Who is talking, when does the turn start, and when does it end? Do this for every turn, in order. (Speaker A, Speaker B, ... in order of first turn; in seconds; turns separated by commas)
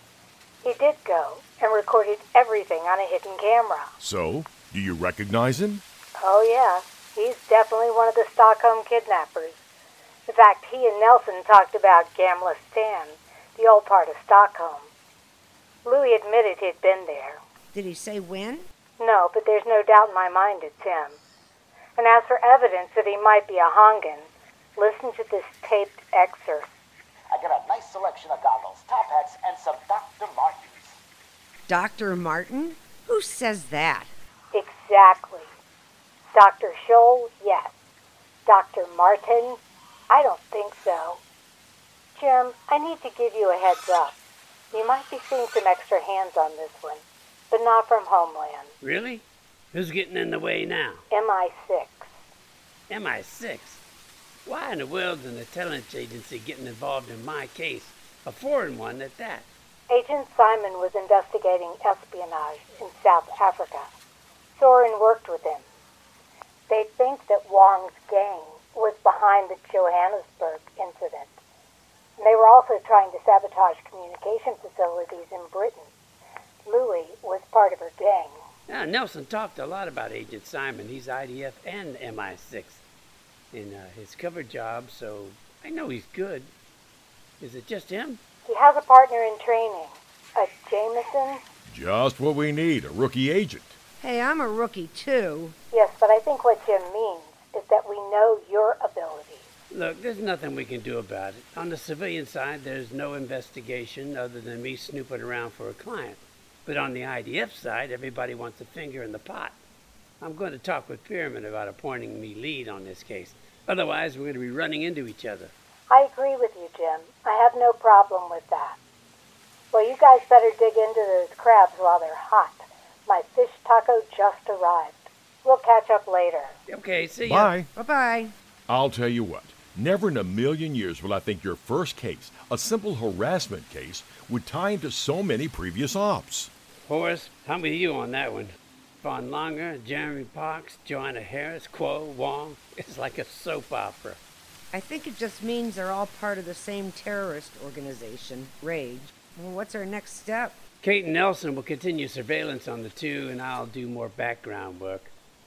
Speaker A: 0.6-3.9, Speaker B: 4.0-5.8, Speaker A: 6.2-9.6, Speaker A: 10.3-14.9, Speaker A: 15.8-17.4, Speaker C: 17.7-18.6, Speaker A: 19.0-21.2, Speaker A: 22.0-26.7, Speaker D: 27.3-31.0, Speaker C: 31.7-34.1, Speaker A: 34.5-35.5, Speaker A: 36.3-37.7, Speaker A: 38.5-41.2, Speaker A: 42.1-44.1, Speaker A: 44.7-48.7, Speaker E: 48.8-51.0, Speaker A: 51.1-52.1, Speaker E: 52.9-53.8, Speaker E: 54.5-59.5, Speaker A: 59.9-63.9, Speaker A: 64.5-65.6, Speaker A: 66.7-71.3, Speaker A: 72.2-75.9, Speaker A: 76.6-78.4, Speaker E: 78.7-82.8, Speaker E: 83.5-86.5, Speaker E: 87.4-88.2, Speaker A: 88.5-91.4, Speaker B: 91.7-93.8, Speaker C: 94.0-95.5, Speaker A: 95.7-99.5, Speaker E: 99.7-109.6, Speaker E: 110.2-115.5, Speaker A: 115.9-118.8, Speaker A: 119.7-126.5, Speaker E: 126.7-127.5, Speaker B: 127.2-127.7, Speaker C: 127.7-128.3, Speaker B: 128.7-136.5, Speaker E: 136.8-144.2, Speaker C: 144.7-150.6, Speaker E: 150.8-155.1